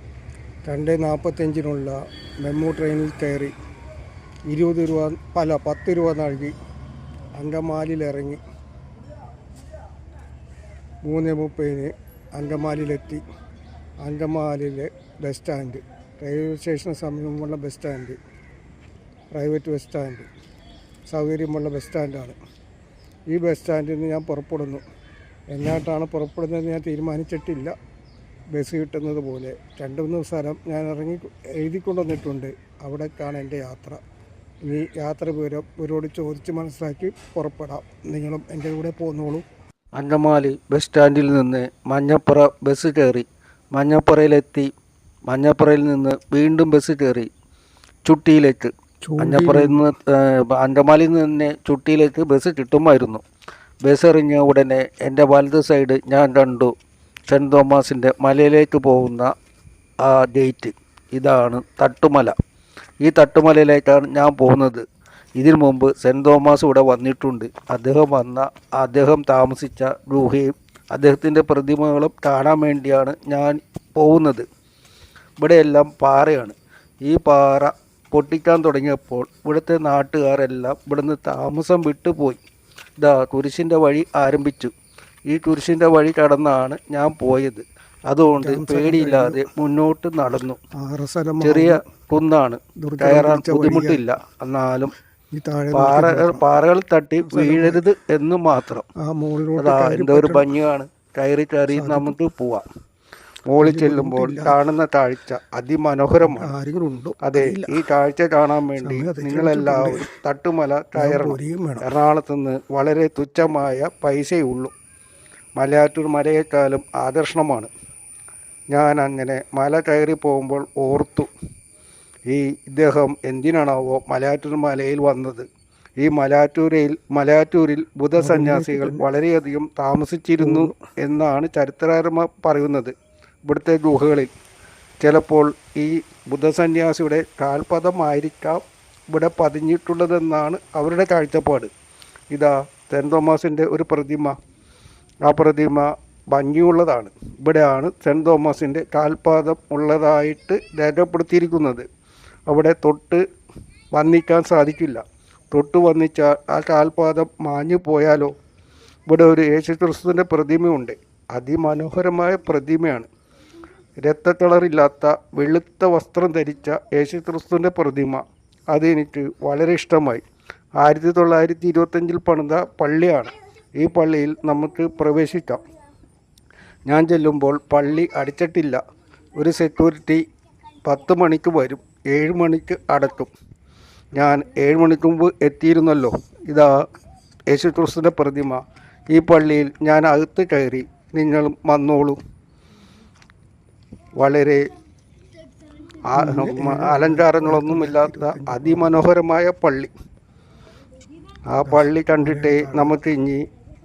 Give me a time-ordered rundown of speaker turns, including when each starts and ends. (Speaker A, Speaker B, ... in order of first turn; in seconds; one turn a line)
Speaker A: 0.6-3.5
Speaker A: 4.5-6.5
Speaker A: 7.4-8.4
Speaker A: 11.0-13.2
Speaker A: 14.0-18.2
Speaker A: 19.3-20.3
Speaker A: 21.1-22.4
Speaker A: 23.3-24.8
Speaker A: 25.5-27.7
Speaker A: 28.5-34.0
Speaker A: 34.6-39.4
Speaker B: 39.9-44.7
Speaker B: 45.3-47.3
Speaker B: 48.0-53.2
Speaker A: 49.0-49.8
Speaker B: 53.8-56.7
Speaker B: 57.3-59.3
Speaker B: 60.0-62.3
Speaker B: 63.0-64.8
Speaker B: 65.4-74.5
Speaker B: 75.4-82.4
Speaker B: 83.0-84.7
Speaker B: 85.3-90.6
Speaker A: 88.3-89.4
Speaker A: 90.8-91.8
Speaker B: 91.4-94.9
Speaker A: 92.8-94.0
Speaker A: 95.3-96.4
Speaker B: 95.7-98.8
Speaker A: 97.2-97.8
Speaker A: 99.0-100.5
Speaker B: 99.5-102.6
Speaker A: 101.7-102.2
Speaker B: 103.5-106.5
Speaker A: 103.6-104.6
Speaker A: 106.2-107.9
Speaker B: 107.2-114.7
Speaker A: 108.8-110.1
Speaker A: 110.9-111.9
Speaker B: 115.6-117.7
Speaker B: 118.7-121.3
Speaker B: 122.3-125.5
Speaker B: 126.0-132.9
Speaker A: 128.2-129.0
Speaker A: 130.4-130.9
Speaker B: 133.4-134.3
Speaker B: 135.0-141.7
Speaker B: 142.3-144.3
Speaker B: 145.2-151.8
Speaker B: 152.5-153.2
Speaker B: 153.9-158.3
Speaker B: 159.1-163.1
Speaker B: 164.0-170.2
Speaker B: 170.8-175.6
Speaker B: 176.9-178.8
Speaker B: 179.3-180.2
Speaker B: 180.8-183.3
Speaker B: 184.1-186.8
Speaker B: 187.5-192.2
Speaker B: 194.2-194.7
Speaker B: 196.1-199.9
Speaker A: 196.1-199.0
Speaker B: 201.5-203.4
Speaker A: 201.6-203.0